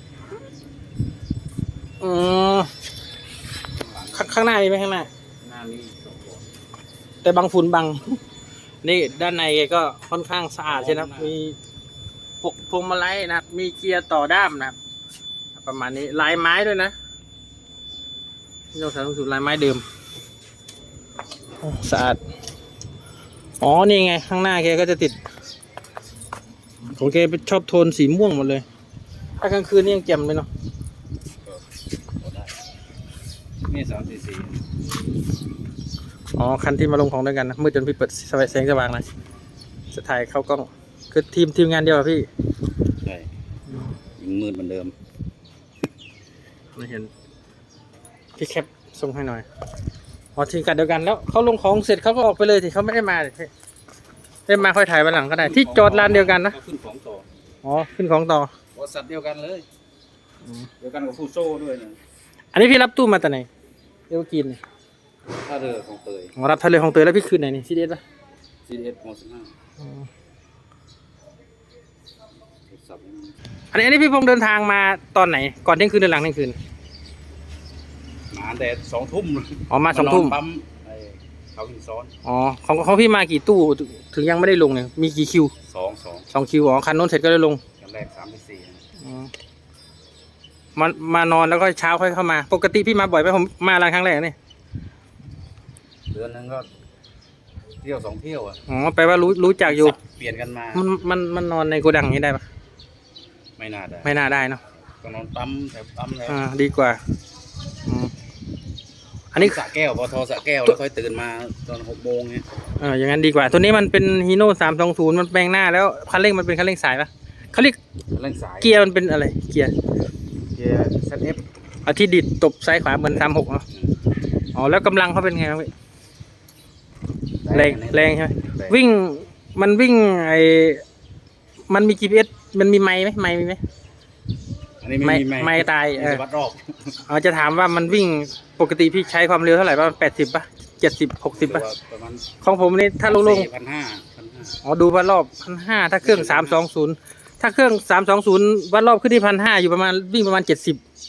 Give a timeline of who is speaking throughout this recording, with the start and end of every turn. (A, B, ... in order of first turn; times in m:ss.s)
0:02.0-0:02.7 A
0:03.8-0:04.3 B
0:04.1-0:05.1 A
0:05.4-0:06.4 B
0:07.2-0:08.2 A
0:08.8-0:11.6 A
0:10.7-0:11.3 B
0:12.4-0:14.8 A
0:15.5-0:16.9 A
0:18.7-0:19.8 A
0:21.6-0:22.2 A
0:23.6-0:25.2 A
0:26.9-0:28.6 A
0:29.4-0:30.5 A
0:32.2-0:32.5 B
0:33.7-0:34.6 B
0:36.4-0:39.1 A
0:39.9-0:42.3 A
0:44.2-0:44.9 B
0:46.8-0:47.1 A
0:48.4-0:49.4 A
0:50.4-0:53.5 A
0:54.5-0:56.6 A
0:55.4-0:57.2 B
0:57.6-0:58.5 A
0:58.7-0:59.6 B
1:00.8-1:02.0 B
1:02.5-1:03.5 A
1:04.1-1:04.6 A
1:05.4-1:06.3 B
1:06.4-1:08.0 A
1:08.6-1:09.5 B
1:12.7-1:13.3 B
1:13.7-1:16.6 A
1:18.3-1:22.1 B
1:19.7-1:20.4 A
1:22.2-1:25.5 A
1:25.7-1:26.3 B
1:26.3-1:27.6 A
1:27.8-1:28.8 B
1:29.0-1:29.3 A
1:30.8-1:34.3 A
1:36.1-1:36.7 B
1:37.8-1:38.6 B
1:38.7-1:40.0 A
1:39.6-1:40.8 B
1:40.7-1:42.4 A
1:43.6-1:44.1 B
1:44.0-1:44.6 A
1:44.8-1:46.4 B
1:46.3-1:47.0 A
1:47.8-1:48.1 A
1:49.3-1:52.4 B
1:52.8-1:57.8 A
1:58.1-1:58.8 B
1:58.6-1:59.7 A
2:00.6-2:01.4 B
2:01.8-2:03.6 A
2:03.1-2:03.9 B
2:04.5-2:05.7 A
2:07.4-2:08.8 B
2:07.5-2:10.8 A
2:11.7-2:13.6 A
2:14.8-2:16.9 B
2:15.0-2:16.2 A
2:17.0-2:21.6 A
2:21.3-2:22.3 B
2:22.4-2:23.5 A
2:23.0-2:24.6 B
2:24.6-2:30.8 A
2:26.0-2:26.6 B